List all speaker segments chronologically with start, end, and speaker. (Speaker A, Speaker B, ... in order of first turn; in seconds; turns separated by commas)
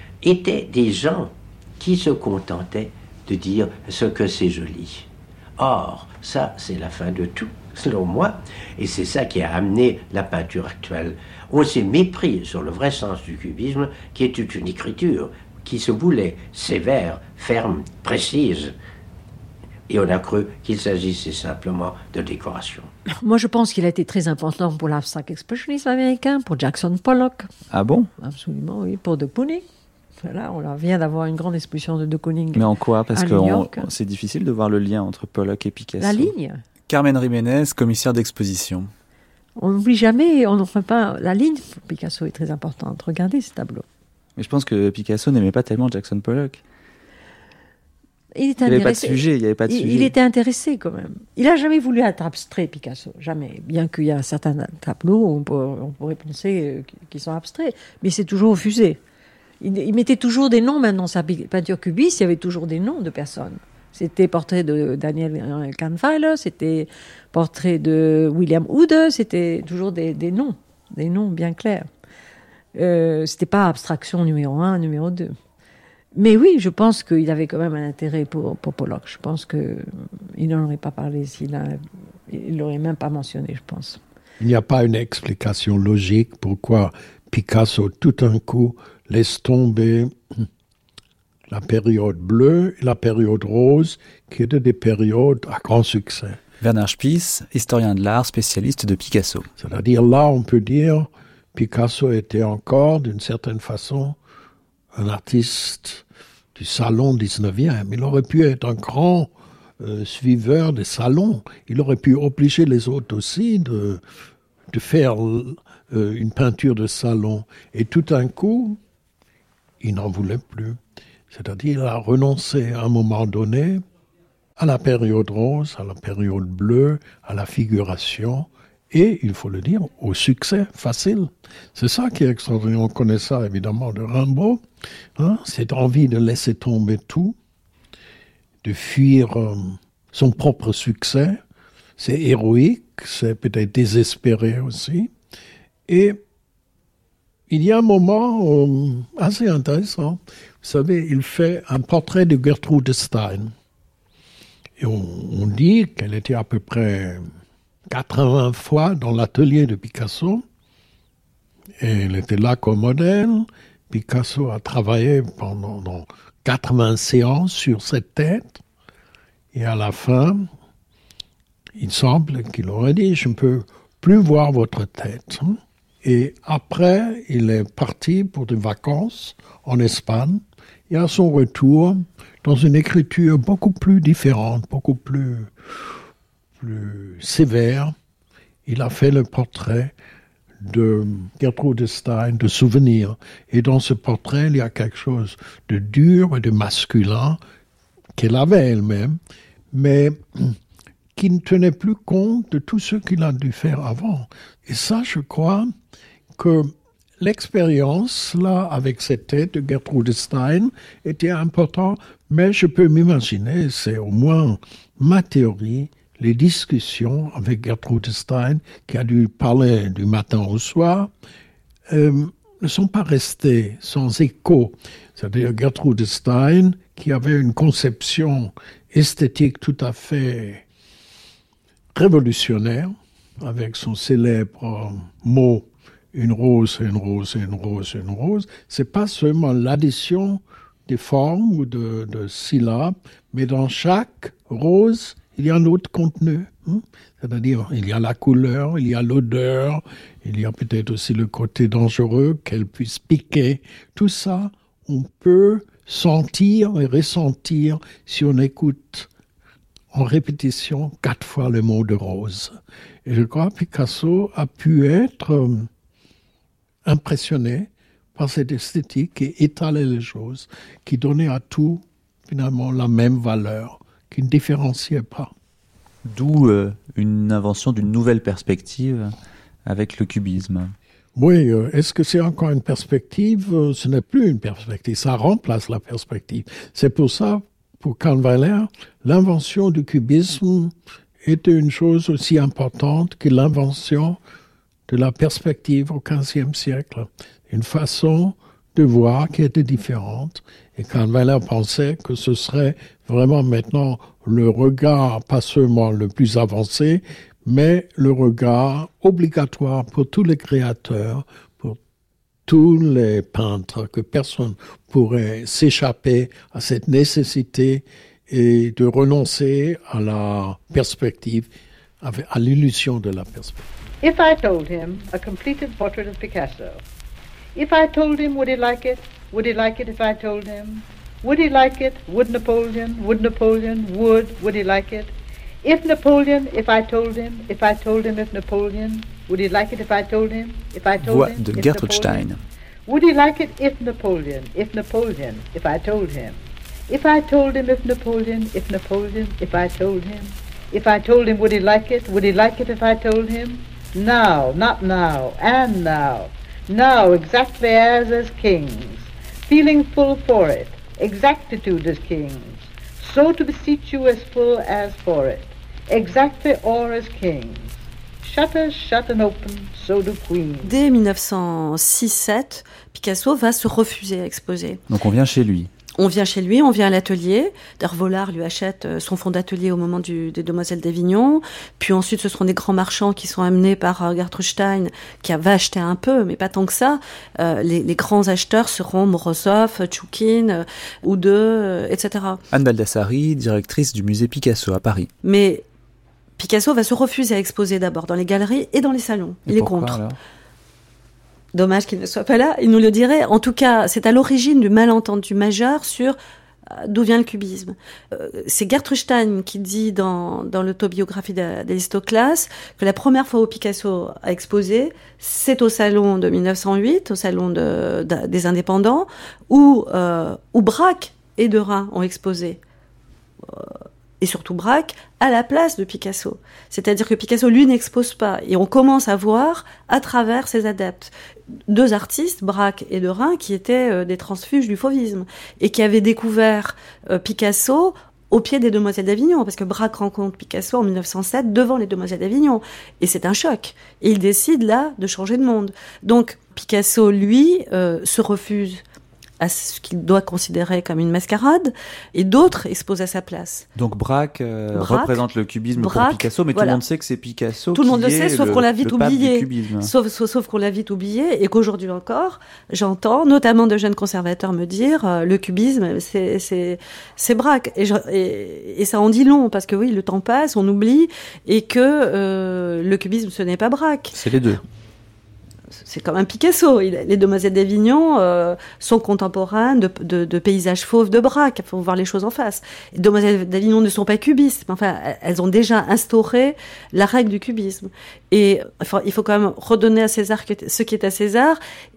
Speaker A: 0.2-18.8, Speaker A: 19.9-22.9, Speaker B: 23.1-27.5, Speaker C: 27.7-28.1, Speaker B: 28.2-29.6, Speaker B: 30.2-33.9, Speaker C: 32.5-36.3, Speaker B: 36.0-36.6, Speaker C: 36.9-38.9, Speaker B: 39.6-43.9, Speaker C: 44.4-46.6, Speaker B: 48.4-59.0, Speaker C: 48.7-50.1, Speaker B: 59.6-71.9, Speaker B: 72.8-75.4, Speaker B: 76.2-84.0, Speaker D: 84.4-90.5, Speaker D: 91.5-96.4, Speaker C: 96.6-99.5, Speaker D: 99.6-104.2, Speaker D: 105.0-114.0, Speaker D: 114.7-118.8, Speaker D: 119.8-120.8, Speaker D: 121.3-123.8, Speaker D: 124.6-134.6, Speaker D: 135.2-137.4, Speaker D: 138.6-141.4, Speaker D: 142.0-145.1, Speaker D: 145.9-146.2, Speaker D: 147.5-153.5, Speaker D: 154.8-157.3, Speaker D: 157.9-160.4, Speaker D: 161.8-168.6, Speaker D: 169.5-170.5, Speaker D: 171.8-185.5, Speaker D: 186.6-187.9, Speaker D: 188.7-189.9, Speaker D: 190.6-197.4, Speaker D: 198.2-199.2, Speaker D: 199.7-200.6, Speaker D: 201.2-205.7, Speaker D: 206.4-221.1, Speaker D: 221.9-230.6, Speaker D: 231.9-259.1, Speaker D: 259.9-265.7, Speaker D: 266.9-275.3, Speaker C: 276.1-279.1, Speaker C: 279.7-280.8, Speaker D: 281.1-294.2, Speaker D: 294.9-311.8, Speaker D: 312.5-323.6, Speaker E: 324.0-326.8, Speaker E: 327.6-342.3, Speaker C: 341.0-342.4, Speaker E: 342.9-367.7, Speaker E: 368.2-370.8, Speaker F: 370.6-374.8, Speaker C: 374.9-375.7, Speaker F: 376.0-392.4, Speaker C: 392.5-395.1, Speaker F: 395.2-395.6, Speaker F: 396.4-400.0, Speaker C: 399.5-400.2, Speaker F: 401.5-406.2, Speaker F: 406.7-422.6, Speaker F: 423.5-431.1, Speaker F: 431.7-448.8, Speaker F: 449.4-453.7, Speaker C: 453.8-459.9, Speaker F: 454.7-455.2, Speaker F: 455.8-456.8, Speaker F: 457.7-474.1, Speaker C: 474.1-474.6, Speaker F: 475.8-491.6